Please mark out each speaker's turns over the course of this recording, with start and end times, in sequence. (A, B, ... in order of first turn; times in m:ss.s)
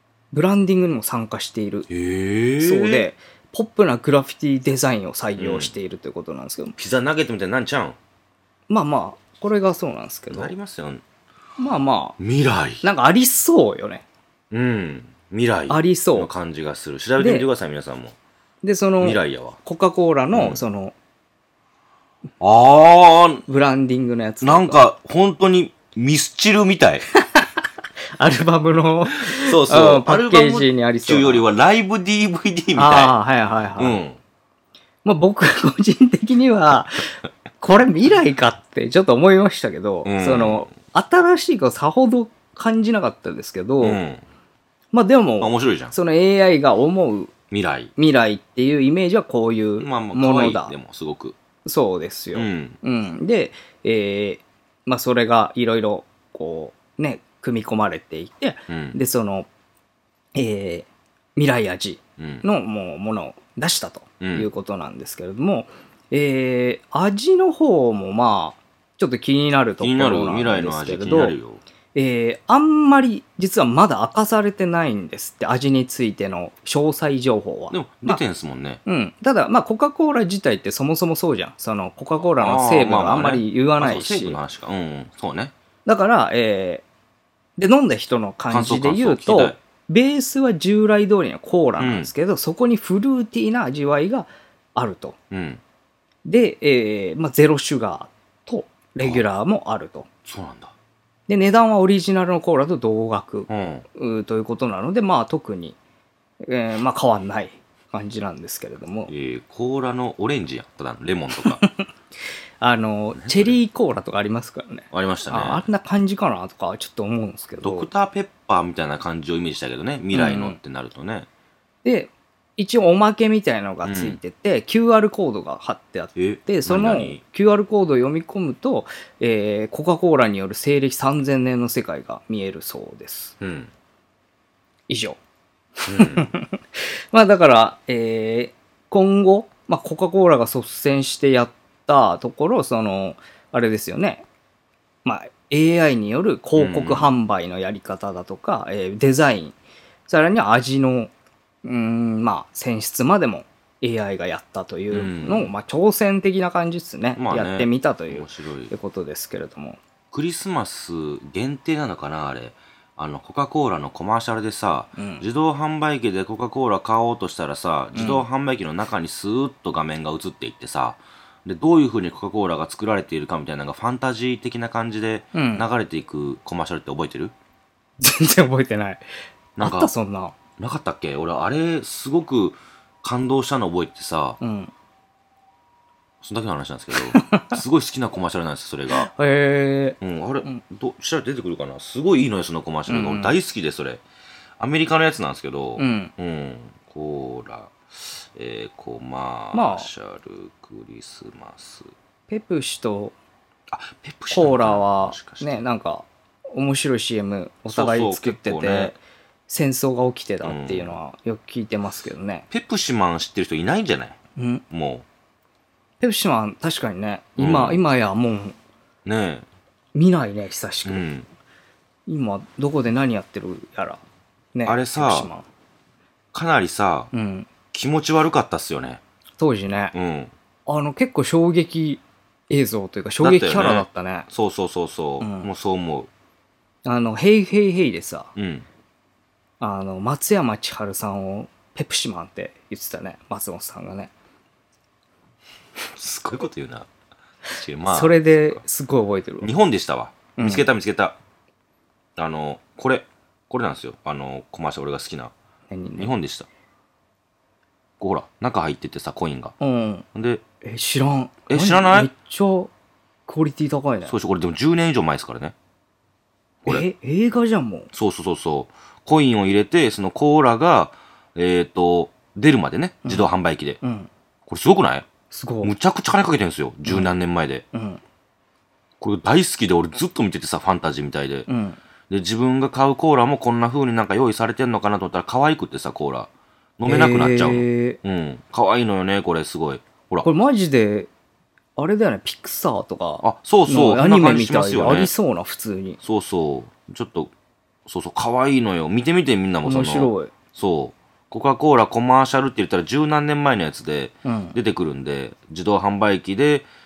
0:00.3-0:01.9 A
0:01.9-0:03.1 B
0:02.6-0:06.8 A
0:05.4-0:05.7 B
0:06.8-0:08.0 B
0:08.7-0:10.5 A
0:10.3-0:11.0 B
0:11.6-0:12.2 A
0:12.2-0:12.8 B
0:12.8-0:14.0 A
0:14.5-0:18.2 B
0:15.7-0:16.3 A
0:17.2-0:17.5 A
0:18.6-0:20.9 A
0:19.0-0:19.6 B
0:20.3-0:20.6 B
0:22.4-0:23.4 B
0:23.5-0:24.8 A
0:24.4-0:27.0 B
0:27.2-0:27.6 A
0:28.2-0:31.5 A
0:29.2-0:33.2 B
0:32.8-0:34.0 A
0:33.8-0:34.2 B
0:35.0-0:44.0 A
0:40.0-0:40.7 B
0:43.8-0:44.2 B
0:44.9-0:47.3 A
0:45.4-0:45.9 B
0:47.5-0:47.9 B
0:48.0-0:50.8 A
0:49.8-0:51.4 B
0:51.6-0:59.5 A
0:52.3-0:52.8 B
0:58.7-0:59.0 B
1:00.4-1:11.4 A
1:02.2-1:02.4 B
1:04.2-1:04.5 B
1:09.8-1:11.6 B
1:12.0-1:18.2 A
1:17.7-1:18.8 B
1:18.9-1:24.4 A
1:22.4-1:25.5 B
1:25.9-1:26.8 A
1:27.6-1:35.2 A
1:28.5-1:29.6 B
1:31.8-1:32.1 B
1:35.3-1:35.6 B
1:36.2-1:40.1 A
1:40.2-1:40.7 B
1:41.3-1:45.8 A
1:43.5-1:43.8 B
1:46.4-1:49.1 A
1:49.1-1:51.6 B
1:51.4-1:51.9 A
1:52.6-1:57.9 A
1:53.1-1:53.6 B
1:54.9-1:55.7 B
1:57.6-2:01.3 B
2:00.1-2:00.6 A
2:01.8-2:13.4 A
2:03.8-2:04.2 B
2:06.2-2:07.2 B
2:13.4-2:13.7 B
2:14.9-2:15.2 A
2:15.8-2:24.2 A
2:15.9-2:16.3 B
2:25.0-2:29.6 A
2:26.6-2:27.1 B
2:30.1-2:31.1 A
2:31.6-2:39.8 A
2:34.9-2:35.5 B
2:37.2-2:38.7 B
2:40.1-2:57.3 B
2:45.0-2:45.2 A
2:47.9-2:48.2 A
2:55.3-2:55.6 A
2:58.0-2:59.0 A
2:59.6-2:59.9 B
2:59.6-3:00.4 A
3:00.6-3:04.4 B
3:04.4-3:04.7 A
3:06.2-3:09.1 B
3:06.9-3:07.6 A
3:08.9-3:10.6 A
3:10.0-3:14.0 B
3:12.9-3:13.4 A
3:14.6-3:21.9 B
3:15.8-3:16.1 A
3:19.5-3:19.9 A
3:22.3-3:23.2 A
3:23.7-3:25.6 B
3:24.3-3:32.5 A
3:27.7-3:29.0 B
3:30.4-3:31.0 B
3:32.5-3:34.2 B
3:34.4-3:34.6 A
3:34.7-3:35.0 B
3:36.0-3:38.6 A
3:37.4-3:37.8 B
3:39.0-3:39.5 B
3:39.9-3:41.0 A
3:40.8-3:41.3 B
3:42.1-3:44.0 A
3:44.5-3:45.5 A
3:44.7-3:45.3 B
3:46.3-3:47.1 B
3:47.1-3:47.5 A
3:47.7-3:49.0 B
3:49.4-3:50.0 A
3:49.9-3:50.3 B
3:50.7-3:54.3 A
3:53.2-3:56.1 B
3:55.2-3:55.5 A
3:56.8-3:58.3 A
3:58.4-3:58.7 B
3:59.6-4:04.1 A
4:05.9-4:06.9 B
4:07.5-4:08.6 B
4:07.9-4:09.5 A
4:09.4-4:11.2 B
4:10.4-4:10.7 A
4:12.2-4:15.3 B
4:15.7-4:16.1 A
4:16.0-4:16.5 B
4:18.0-4:19.6 B
4:19.6-4:20.0 A
4:20.1-4:20.4 B
4:20.6-4:22.7 A
4:21.5-4:22.1 B
4:23.3-4:24.1 A
4:24.0-4:25.6 B
4:26.7-4:27.9 A
4:27.9-4:33.8 B
4:33.8-4:34.1 A
4:34.5-4:35.1 B
4:35.3-4:35.7 A
4:35.6-4:37.6 B
4:36.9-4:37.1 A
4:37.7-4:38.0 A
4:39.0-4:41.5 B
4:41.5-4:41.8 A
4:42.1-4:50.3 B
4:46.9-4:48.0 A
4:50.2-4:51.1 A
4:51.8-4:56.0 A
4:53.2-4:55.1 B
4:56.0-4:57.3 B
4:57.9-5:06.7 B
4:59.6-5:00.3 A
5:04.2-5:04.6 A